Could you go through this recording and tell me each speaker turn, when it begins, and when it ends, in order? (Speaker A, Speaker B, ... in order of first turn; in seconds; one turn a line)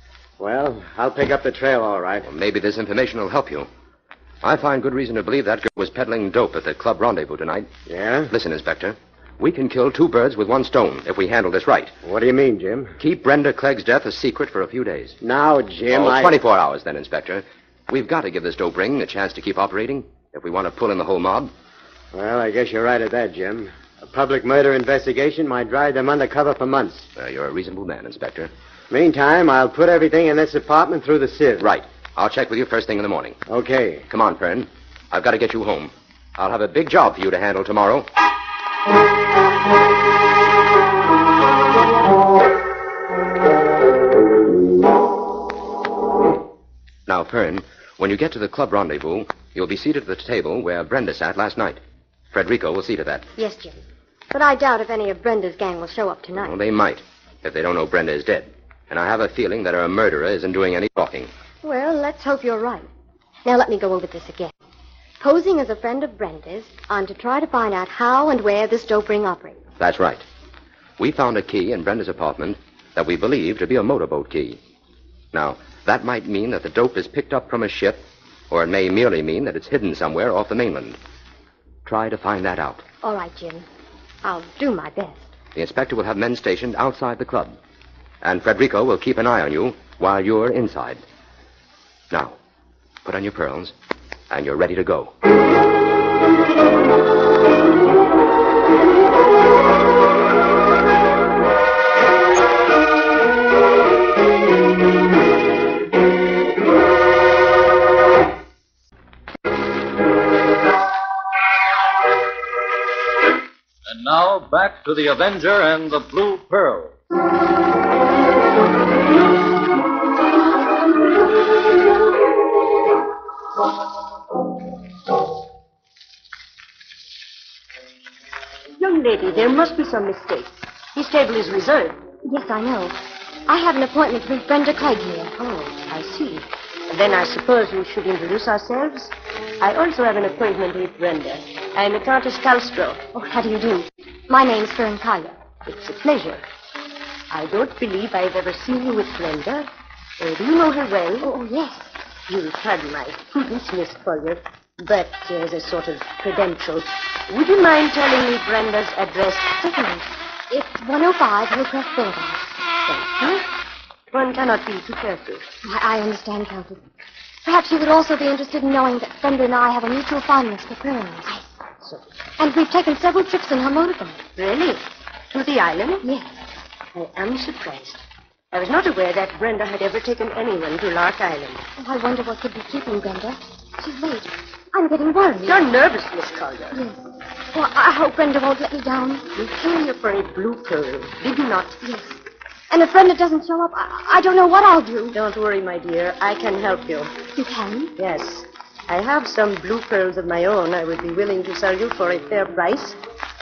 Speaker A: 0.4-2.3
Speaker B: 2.2-3.7
Speaker B: 4.4-7.7
Speaker A: 7.9-8.3
Speaker B: 8.3-11.9
Speaker A: 12.0-13.0
Speaker B: 13.0-15.2
Speaker A: 15.2-16.4
Speaker B: 15.9-21.5
Speaker A: 22.1-27.1
Speaker B: 27.2-28.5
Speaker A: 28.9-31.7
Speaker B: 31.6-33.4
Speaker A: 33.5-34.0
Speaker B: 34.1-38.1
Speaker B: 47.1-51.8
Speaker B: 52.3-53.3
Speaker C: 53.4-53.8
Speaker C: 54.3-56.5
Speaker B: 56.4-61.3
Speaker C: 61.6-62.9
Speaker C: 63.5-64.5
Speaker C: 65.2-69.6
Speaker B: 69.8-70.2
Speaker B: 71.0-74.6
Speaker B: 75.3-81.0
Speaker B: 81.9-82.8
Speaker C: 83.0-83.7
Speaker C: 84.2-85.3
Speaker B: 85.5-87.6
Speaker B: 88.2-91.0
Speaker B: 92.1-92.4
Speaker B: 93.0-93.7
Speaker B: 94.3-95.1
Speaker D: 113.9-116.9
Speaker E: 128.8-132.0
Speaker C: 132.2-135.4
Speaker E: 135.4-143.8
Speaker C: 143.3-143.7
Speaker C: 144.3-145.4
Speaker E: 145.7-146.4
Speaker E: 147.3-149.7
Speaker E: 150.2-151.3
Speaker C: 151.2-151.9
Speaker E: 152.3-159.7
Speaker C: 159.6-163.4
Speaker E: 164.1-165.5
Speaker C: 165.6-166.8
Speaker C: 167.4-171.4
Speaker C: 172.4-174.2
Speaker E: 174.4-176.0
Speaker C: 176.0-176.3
Speaker E: 176.9-178.0
Speaker E: 178.5-181.6
Speaker C: 181.8-185.6
Speaker E: 185.4-186.8
Speaker C: 186.7-189.4
Speaker E: 189.4-191.8
Speaker C: 191.8-192.2
Speaker C: 192.7-195.2
Speaker E: 195.1-197.1
Speaker C: 197.3-197.9
Speaker E: 198.0-203.0